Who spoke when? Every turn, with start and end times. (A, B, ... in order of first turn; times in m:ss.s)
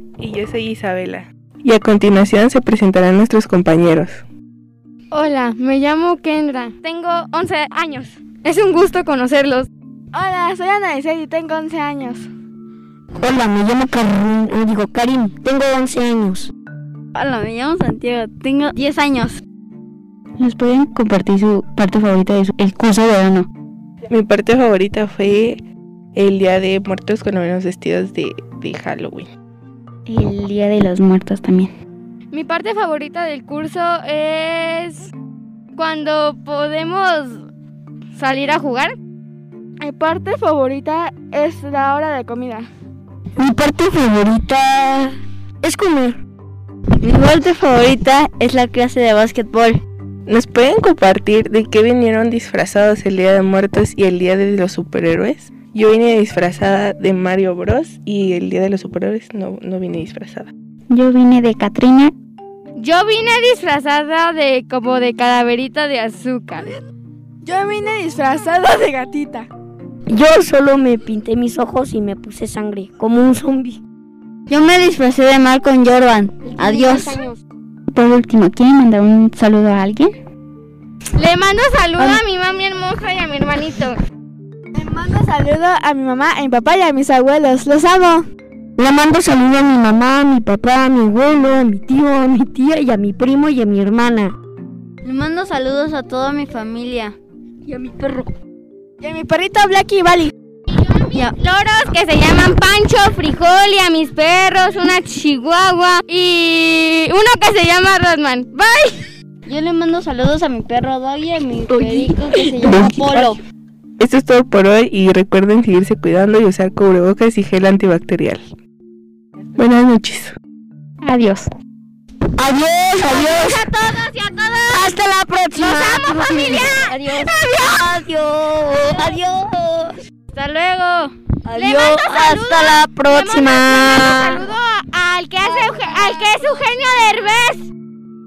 0:00.2-0:04.2 A
0:05.1-0:09.7 B
0:10.1-0:12.3 C
0:13.2-0:16.5 D
0:17.2-0:19.4 E
0:20.4-0:23.5 F
0:24.1-0:25.6 A
0:26.2-0:29.3 A
0:30.1-0:31.7 F
0:32.3-0:35.1 B
0:35.8-0:37.4 B
0:38.2-0:39.0 B
0:39.8-0:42.7 C
0:43.4-0:46.2 D
0:47.0-0:49.8 E
0:50.3-1:00.5 A
1:00.9-1:02.1 F
1:02.8-1:06.8 B
1:07.4-1:09.5 C
1:10.1-1:13.8 D
1:14.5-1:17.2 E
1:17.9-1:20.2 F
1:21.2-1:23.9 B
1:24.8-1:28.2 C
1:28.8-1:34.4 D
1:35.0-1:37.2 E
1:37.7-1:38.3 D
1:39.0-1:40.3 C
1:40.8-1:49.0 B
1:49.5-1:53.4 E
1:52.6-1:53.4 A
1:54.0-1:58.5 A
1:59.6-2:00.3 A
2:01.0-2:01.5 F
2:02.4-2:03.7 D
2:03.0-2:05.0 B
2:04.7-2:09.8 D
2:05.5-2:07.9 B
2:10.3-2:17.7 B
2:11.5-2:12.2 D
2:14.1-2:14.4 D